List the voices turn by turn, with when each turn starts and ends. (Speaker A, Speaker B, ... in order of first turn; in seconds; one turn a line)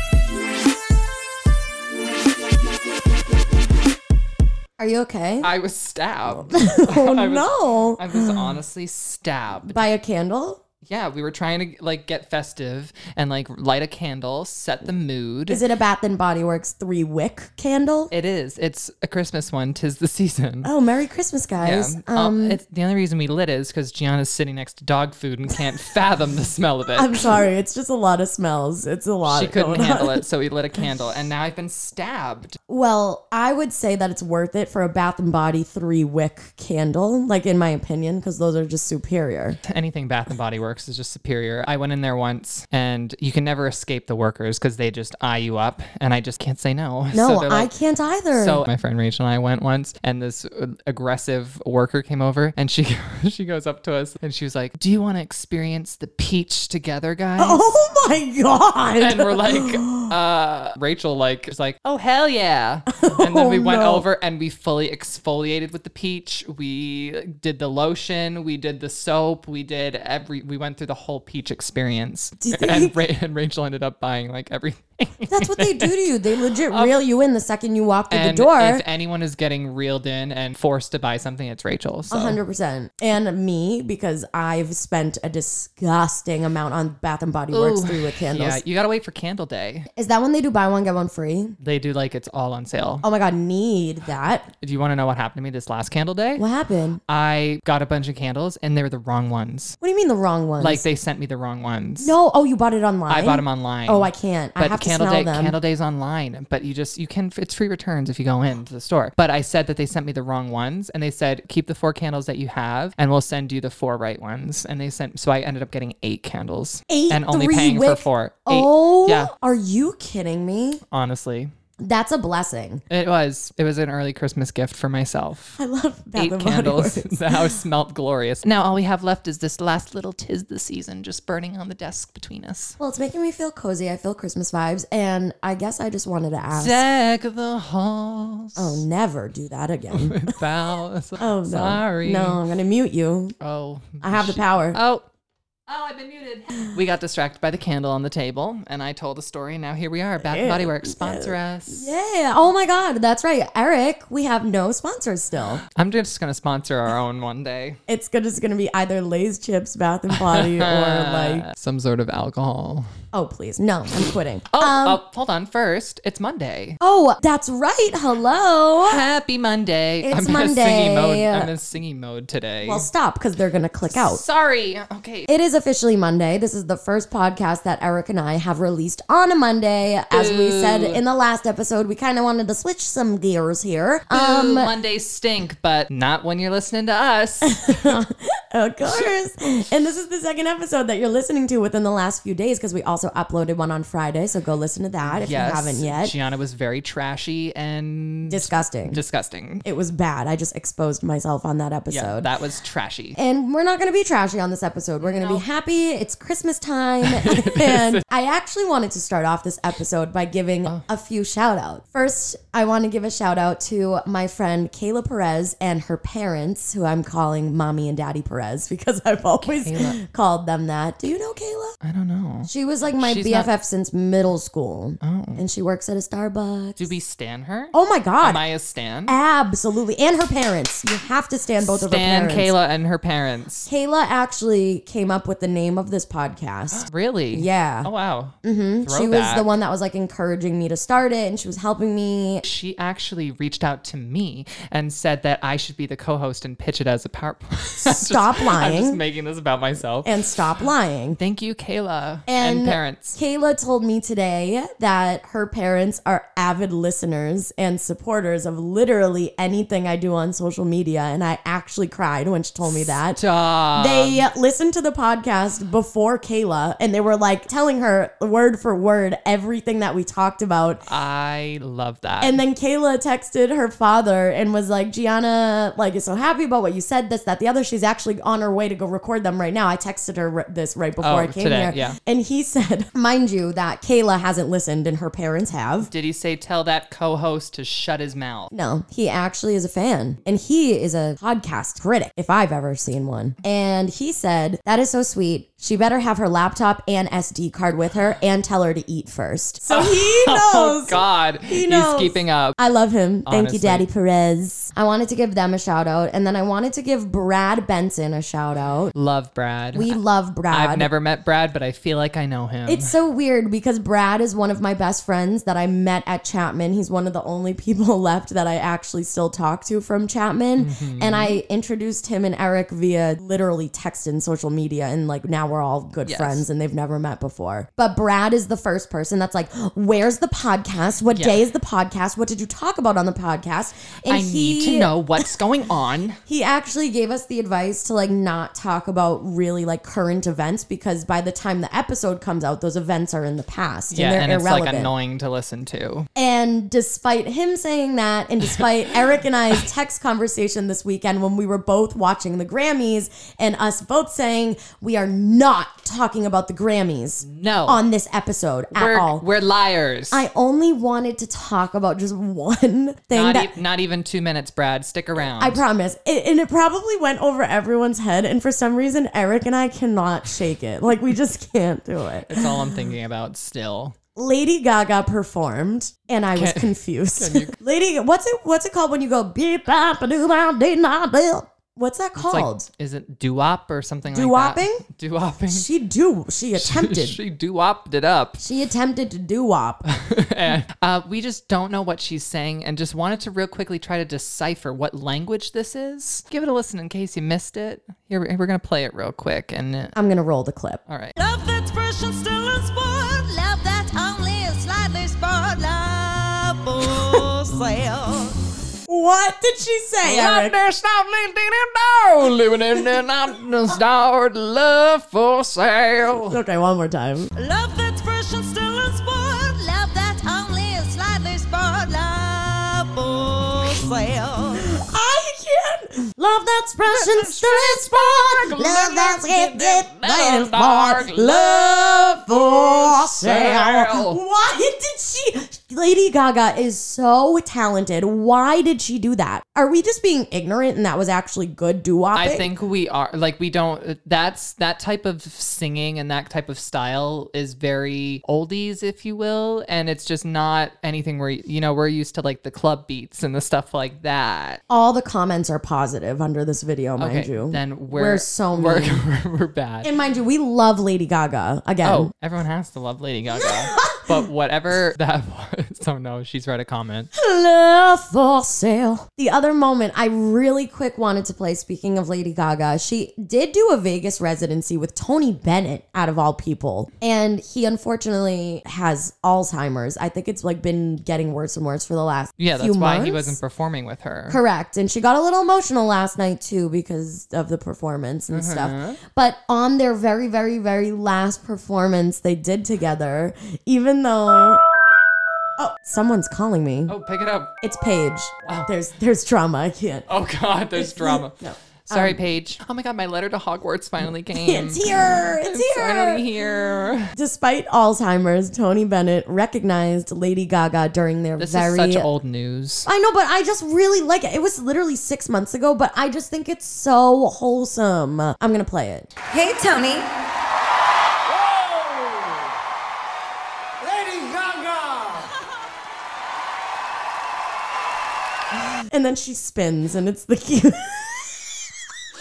Speaker A: 4.8-5.5
Speaker B: 5.4-9.8
Speaker A: 6.3-8.4
Speaker A: 9.7-10.6
Speaker B: 10.8-15.6
Speaker A: 15.5-18.1
Speaker B: 18.1-20.7
Speaker A: 20.6-22.6
Speaker B: 21.6-27.3
Speaker A: 26.9-30.2
Speaker B: 29.2-32.6
Speaker A: 32.7-39.6
Speaker B: 39.6-47.7
Speaker A: 47.1-48.6
Speaker B: 48.4-57.6
Speaker A: 57.4-60.1
Speaker B: 59.0-76.1
Speaker A: 63.0-64.0
Speaker A: 72.4-73.0
Speaker A: 75.3-78.8
Speaker B: 76.6-76.9
Speaker B: 78.1-82.4
Speaker A: 82.1-88.6
Speaker B: 87.5-89.9
Speaker A: 90.0-91.6
Speaker B: 91.6-93.0
Speaker A: 93.0-94.5
Speaker B: 94.6-96.4
Speaker A: 96.4-97.0
Speaker B: 97.1-99.8
Speaker A: 99.8-100.8
Speaker B: 100.6-102.2
Speaker A: 102.0-105.6
Speaker B: 103.1-119.3
Speaker A: 116.9-120.8
Speaker B: 120.9-121.5
Speaker A: 121.8-122.8
Speaker B: 122.9-125.6
Speaker A: 125.6-127.6
Speaker B: 126.2-132.8
Speaker A: 132.8-136.8
Speaker B: 136.5-138.8
Speaker A: 138.6-140.4
Speaker B: 139.9-142.4
Speaker A: 141.2-143.3
Speaker B: 143.4-145.0
Speaker A: 144.0-144.8
Speaker B: 145.7-151.9
Speaker A: 150.2-155.6
Speaker B: 155.6-157.8
Speaker A: 157.9-161.4
Speaker B: 160.1-162.9
Speaker A: 163.1-165.0
Speaker B: 164.5-166.8
Speaker A: 166.8-169.0
Speaker B: 168.8-172.9
Speaker A: 170.0-171.5
Speaker A: 172.6-174.2
Speaker B: 173.9-175.3
Speaker A: 175.3-184.7
Speaker B: 180.1-181.0
Speaker B: 184.1-188.0
Speaker A: 187.5-196.1
Speaker B: 188.8-189.1
Speaker B: 195.1-199.6
Speaker A: 198.3-199.0
Speaker A: 199.6-202.3
Speaker B: 201.9-203.2
Speaker A: 203.2-221.8
Speaker B: 205.0-205.4
Speaker B: 207.0-208.0
Speaker B: 219.4-220.0
Speaker B: 221.8-223.5
Speaker A: 222.5-226.9
Speaker B: 225.0-225.4
Speaker B: 226.8-229.2
Speaker A: 227.7-228.4
Speaker A: 229.1-232.5
Speaker B: 231.6-233.7
Speaker A: 233.7-237.9
Speaker B: 236.7-239.5
Speaker A: 238.4-242.4
Speaker B: 242.4-250.2
Speaker A: 247.8-249.0
Speaker A: 250.0-251.2
Speaker B: 251.2-253.2
Speaker A: 252.3-263.2
Speaker B: 263.1-264.2
Speaker A: 263.7-270.8
Speaker B: 270.9-272.4
Speaker A: 272.2-285.9
Speaker B: 281.0-282.0
Speaker B: 285.8-288.5
Speaker A: 288.5-308.9
Speaker B: 299.7-302.6
Speaker B: 303.2-303.8
Speaker B: 308.9-310.0
Speaker A: 309.7-310.9
Speaker B: 310.5-312.9
Speaker A: 312.7-335.3
Speaker B: 320.6-321.4
Speaker B: 326.0-326.4
Speaker B: 331.1-331.4
Speaker B: 334.1-336.2
Speaker A: 336.3-344.9
Speaker B: 343.9-346.1
Speaker A: 346.1-359.2
Speaker B: 357.2-357.8
Speaker B: 358.7-360.3
Speaker A: 360.1-363.6
Speaker B: 363.1-365.6
Speaker A: 365.4-372.6
Speaker B: 372.2-373.9
Speaker A: 374.1-382.7
Speaker B: 376.3-377.6
Speaker B: 382.2-385.7
Speaker A: 384.1-384.8
Speaker A: 385.5-387.2
Speaker B: 386.6-388.4
Speaker A: 388.4-389.8
Speaker B: 389.8-399.9
Speaker A: 399.9-400.8
Speaker B: 400.9-401.1
Speaker C: 401.2-408.4
Speaker A: 408.9-410.5
Speaker B: 410.0-416.4
Speaker A: 416.2-417.3
Speaker C: 417.4-424.6
Speaker A: 424.5-442.5
Speaker B: 426.9-434.2
Speaker C: 428.7-429.3
Speaker B: 442.1-454.6
Speaker A: 454.7-459.0
Speaker B: 457.0-459.9
Speaker A: 459.8-462.1
Speaker B: 461.8-467.1
Speaker A: 463.3-464.1
Speaker A: 467.1-483.4
Speaker B: 482.4-484.4
Speaker A: 484.3-494.6
Speaker B: 488.3-489.0
Speaker A: 495.6-496.9
Speaker B: 496.9-497.5
Speaker A: 497.6-500.1
Speaker B: 500.1-507.1
Speaker A: 500.7-502.2
Speaker A: 504.3-506.3
Speaker A: 507.1-512.1
Speaker B: 511.4-512.9
Speaker A: 512.9-519.1
Speaker C: 519.3-520.1
Speaker C: 523.9-525.2
Speaker A: 528.9-531.6